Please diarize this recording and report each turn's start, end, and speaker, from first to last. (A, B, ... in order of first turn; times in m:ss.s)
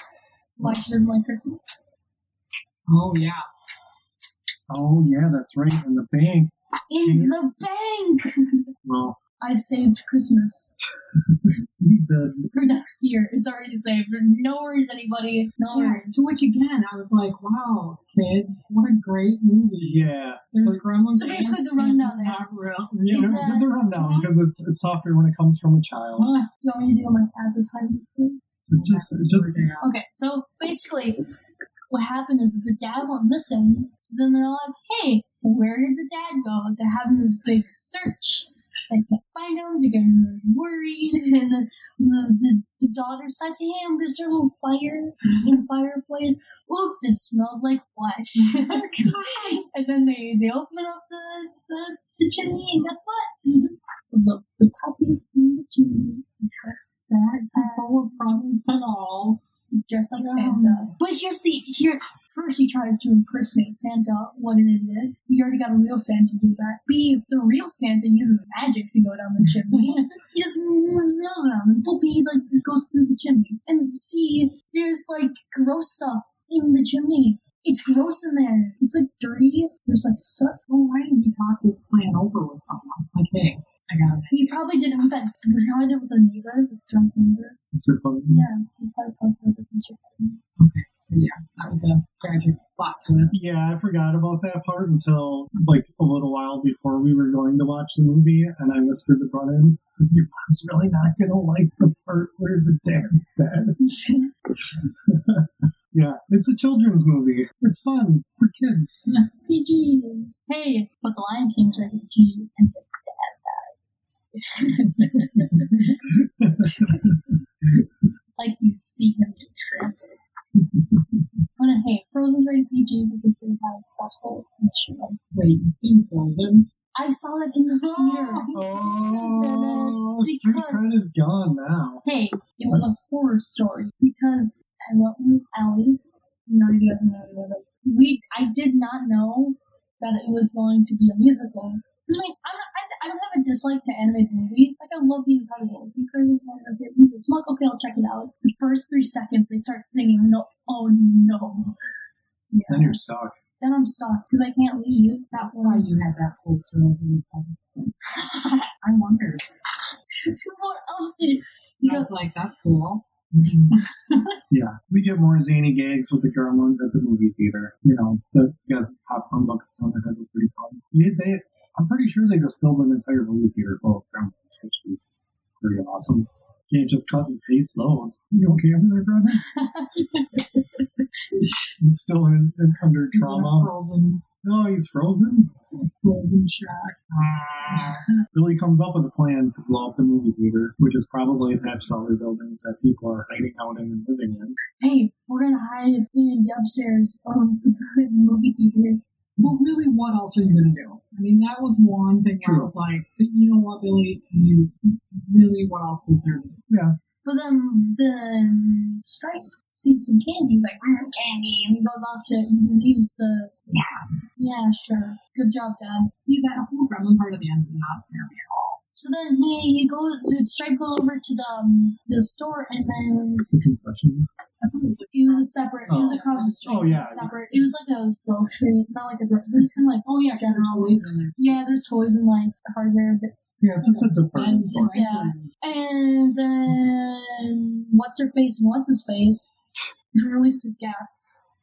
0:00.6-0:01.6 A
0:02.9-0:03.4 B
0:04.7-0:07.4 C
0:06.9-0:08.7 A
0:08.8-0:09.2 C
0:09.4-0:10.7 A
0:11.8-0:12.5 C
0:12.5-0:16.1 A
0:15.7-0:23.4 B
0:19.8-0:20.8 C
0:21.1-0:22.6 A
0:23.0-0:26.3 C
0:23.1-0:23.7 A
0:23.9-0:24.3 B
0:26.2-0:26.5 B
0:26.6-0:28.4 A
0:28.7-0:29.5 C
0:28.8-0:29.9 B
0:29.8-0:31.2 A
0:31.9-0:58.4 A
0:48.4-0:49.6 B
0:56.8-0:59.4 B
0:59.9-1:20.6 A
1:00.2-1:00.9 B
1:20.7-1:24.6 B
1:24.3-1:27.6 A
1:27.7-1:28.5 C
1:28.3-1:30.4 A
1:30.6-1:33.4 B
1:33.3-1:43.8 C
1:43.8-1:44.3 A
1:45.1-1:49.1 C
1:49.3-1:56.0 A
1:56.0-1:57.2 C
1:56.7-1:57.1 A
1:58.4-2:00.2 A
2:01.6-2:05.2 A
2:05.3-2:06.7 B
2:06.9-2:11.0 A
2:07.8-2:08.6 B
2:08.5-2:12.0 C
2:12.0-2:31.8 A
2:32.5-2:33.0 A
2:32.7-2:33.4 C
2:33.6-2:36.0 A
2:35.3-2:38.0 B
2:38.1-2:38.7 A
2:38.8-2:39.5 B
2:40.2-2:42.1 A
2:41.8-2:44.4 B
2:44.5-2:59.5 C
2:59.4-3:00.1 A
3:01.8-3:03.7 C
3:03.1-3:04.2 B
3:04.4-3:05.5 C
3:06.0-3:07.0 B
3:07.1-3:14.6 C
3:07.7-3:08.2 B
3:14.8-3:19.0 A
3:19.4-3:26.6 B
3:22.4-3:22.7 C
3:26.7-3:27.0 C
3:27.2-3:33.6 A
3:33.7-3:34.0 B
3:34.4-3:36.1 A
3:36.2-3:38.8 B
3:38.9-3:43.5 A
3:43.5-3:44.3 C
3:44.6-3:47.2 B
3:45.1-3:54.1 A
3:45.9-3:47.3 C
3:50.1-3:51.6 B
3:53.6-3:54.9 C
3:54.3-3:55.5 B
3:54.7-3:59.6 A
4:00.2-4:01.4 A